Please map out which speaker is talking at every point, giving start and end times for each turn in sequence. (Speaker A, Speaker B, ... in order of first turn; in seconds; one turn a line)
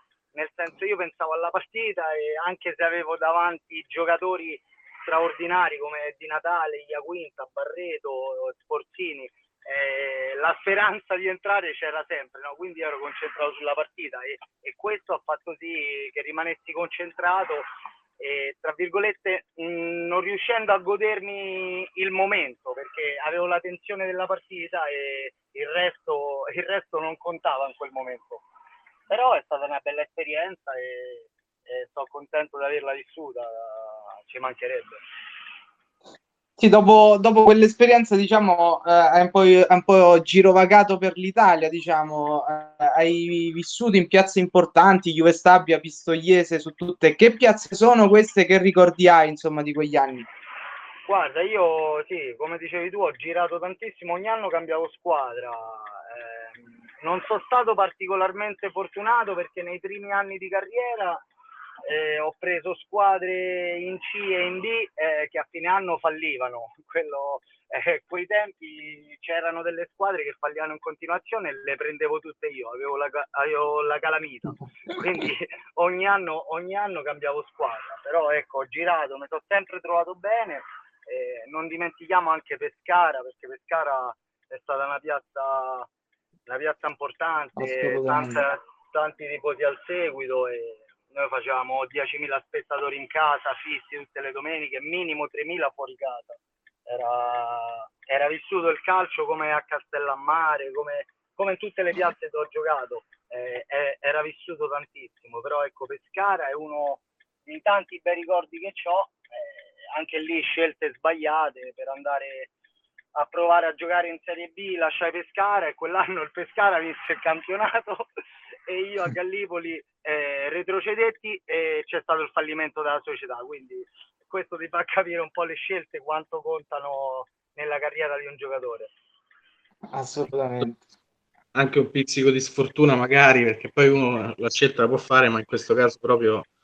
Speaker A: 0.3-17.7
Speaker A: 18.2-28.4
Speaker A: 29.1-35.0
Speaker B: 36.6-50.3
Speaker A: 51.1-61.2
Speaker A: 61.8-85.9
Speaker A: 86.5-112.5
Speaker B: 87.6-88.4
Speaker A: 113.1-118.1
Speaker A: 118.7-128.9
Speaker B: 129.9-130.8
Speaker C: 131.6-136.5